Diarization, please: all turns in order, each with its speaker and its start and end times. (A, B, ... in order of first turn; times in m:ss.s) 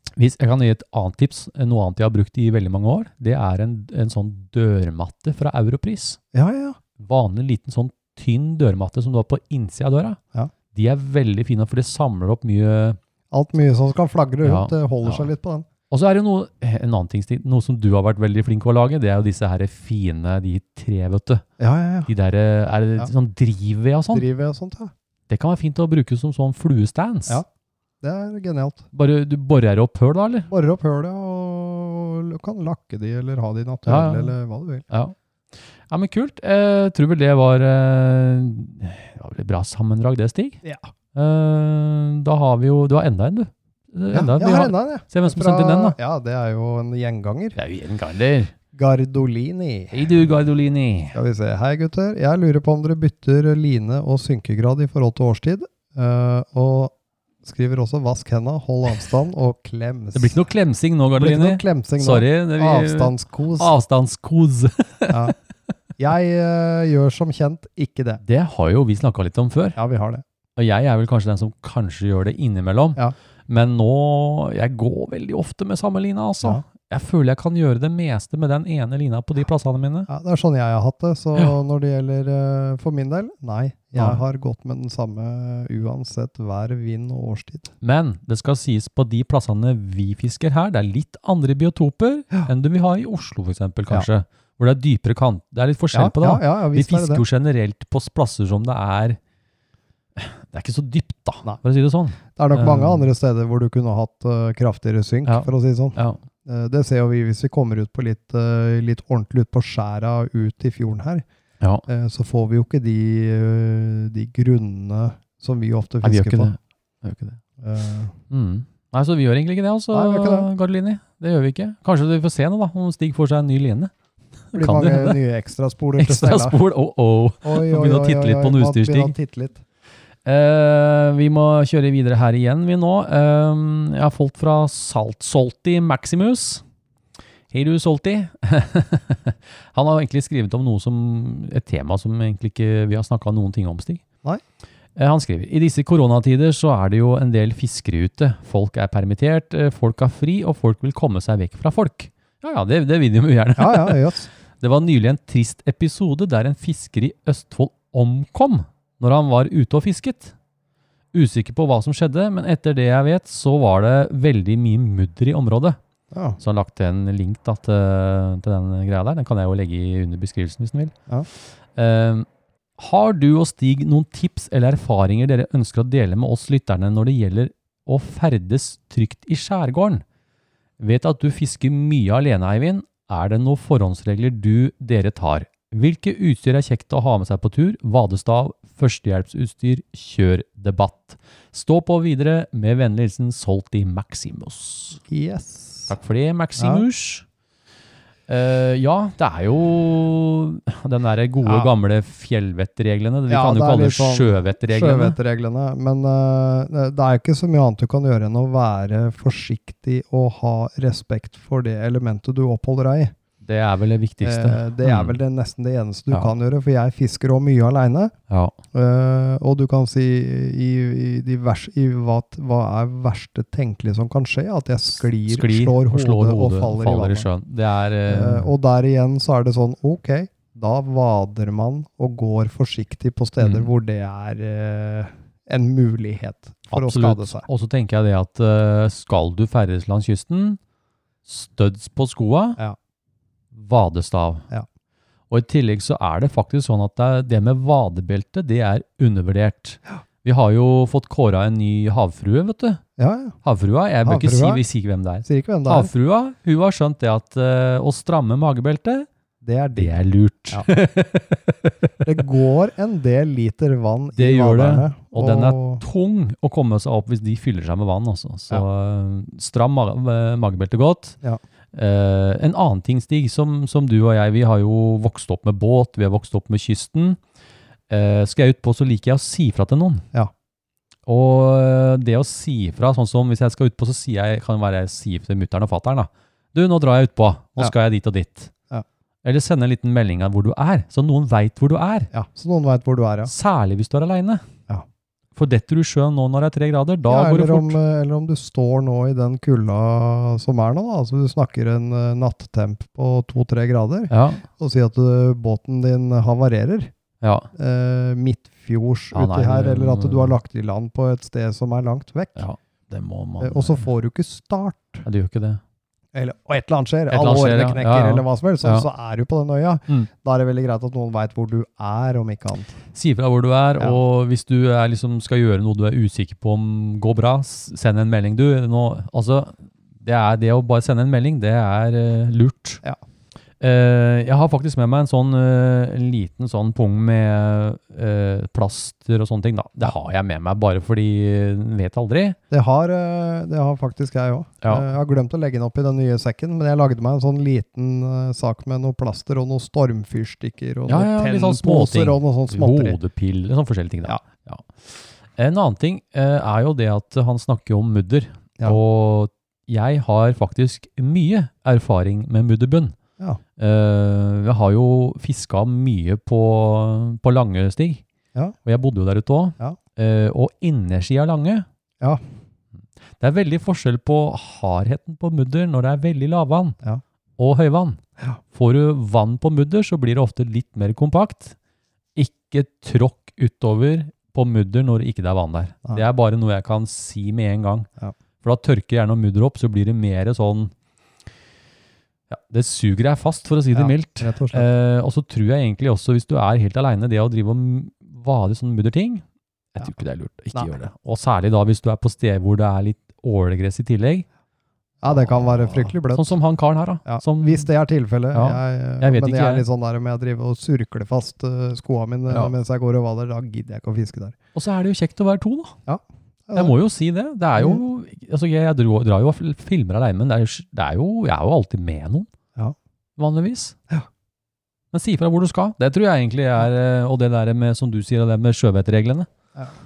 0:00.2-0:06.2 A
0:06.3-0:06.8 B
0:07.0-0:10.2 A
0:10.7-0:13.0 A
0:13.3-0:15.7 B
0:14.4-0:15.3 A
0:15.9-0:21.4 A
0:21.6-0:22.1 B
0:22.1-0:24.2 A
0:24.1-0:24.9 B
0:25.3-0:27.4 A
0:28.0-0:28.8 B
0:28.9-0:30.5 A
0:30.5-0:34.9 B
0:33.9-0:34.4 A
0:34.9-0:35.2 A
0:35.9-0:40.6 A
0:40.6-0:40.9 B
0:41.1-0:46.0 A
0:44.1-0:47.6 B
0:47.6-0:48.5 A
0:48.7-0:50.1 B
0:49.9-0:51.2 A
0:51.1-1:00.4 B
1:00.1-1:05.3 A
1:01.2-1:03.7 B
1:05.1-1:05.4 B
1:06.0-1:08.2 B
1:08.2-1:09.8 A
1:09.8-1:10.2 B
1:10.6-1:20.1 A
1:20.1-1:27.7 B
1:24.0-1:24.2 A
1:27.8-1:39.2 A
1:35.9-1:37.2 B
1:40.2-1:43.1 A
1:42.4-1:51.2 B
1:45.3-1:46.2 A
1:51.9-1:56.5 B
1:56.0-1:57.4 A
1:57.6-1:58.2 B
1:58.3-2:03.9 A
1:59.9-2:00.5 B
2:04.5-2:05.2 A
2:04.6-2:06.6 B
2:06.0-2:09.1 A
2:07.4-2:09.6 B
2:10.2-2:16.6 A
2:17.5-2:24.0 A
2:25.0-2:34.1 A
2:33.6-2:34.3 B
2:34.6-2:40.3 A
2:41.1-2:45.8 A
2:46.1-2:46.4 B
2:46.4-2:51.0 A
2:51.7-2:52.3 A
2:52.8-3:00.0 A
3:00.8-3:15.0 A
3:15.1-3:15.9 B
3:15.9-3:17.2 A
3:16.6-3:16.8 B
3:18.3-3:25.2 A
3:21.4-3:21.7 B
3:23.3-3:33.1 B
3:33.4-3:35.2 A
3:34.2-3:38.1 B
3:38.3-3:38.6 A
3:38.7-3:47.3 B
3:45.3-3:48.5 A
3:48.1-3:57.5 B
3:53.4-3:53.7 A
3:56.7-4:00.6 A
4:01.3-4:02.6 A
4:03.5-4:04.5 A
4:05.3-4:12.8 A
4:13.0-4:13.4 B
4:13.4-4:19.1 A
4:14.0-4:14.6 B
4:15.2-4:15.9 B
4:19.4-4:20.0 B
4:19.8-4:21.8 A
4:22.0-4:25.8 B
4:24.2-4:31.2 A
4:31.7-4:37.2 A
4:37.9-4:40.1 A
4:41.1-4:48.5 A
4:49.2-4:52.1 A
4:52.1-4:53.3 B
4:53.3-4:54.4 A
4:55.4-4:57.8 A
4:57.0-5:06.9 B
5:04.1-5:04.4 A
5:07.2-5:07.5 A
5:07.5-5:12.4 B
5:09.1-5:10.4 A
5:12.4-5:13.9 A
5:13.4-5:15.0 B
5:15.0-5:15.6 A
5:16.1-5:22.8 B
5:17.1-5:18.9 A
5:22.9-5:32.8 A
5:33.6-5:42.4 A
5:42.5-5:53.0 B
5:44.6-5:44.9 A
5:50.9-6:03.0 A
6:03.6-6:08.0 A
6:08.6-6:11.7 A
6:13.2-6:16.8 A
6:17.4-6:21.6 A
6:22.2-6:27.9 A
6:28.4-6:30.7 A
6:32.3-6:39.2 A
6:33.7-6:34.7 B
6:39.8-6:44.3 A
6:45.0-6:46.4 B
6:45.1-6:47.7 A
6:47.1-6:54.4 B
6:48.3-6:49.6 A
6:54.6-6:55.8 A
6:55.9-6:56.8 B
6:56.5-7:02.3 A
7:03.2-7:03.8 A
7:04.9-7:09.3 A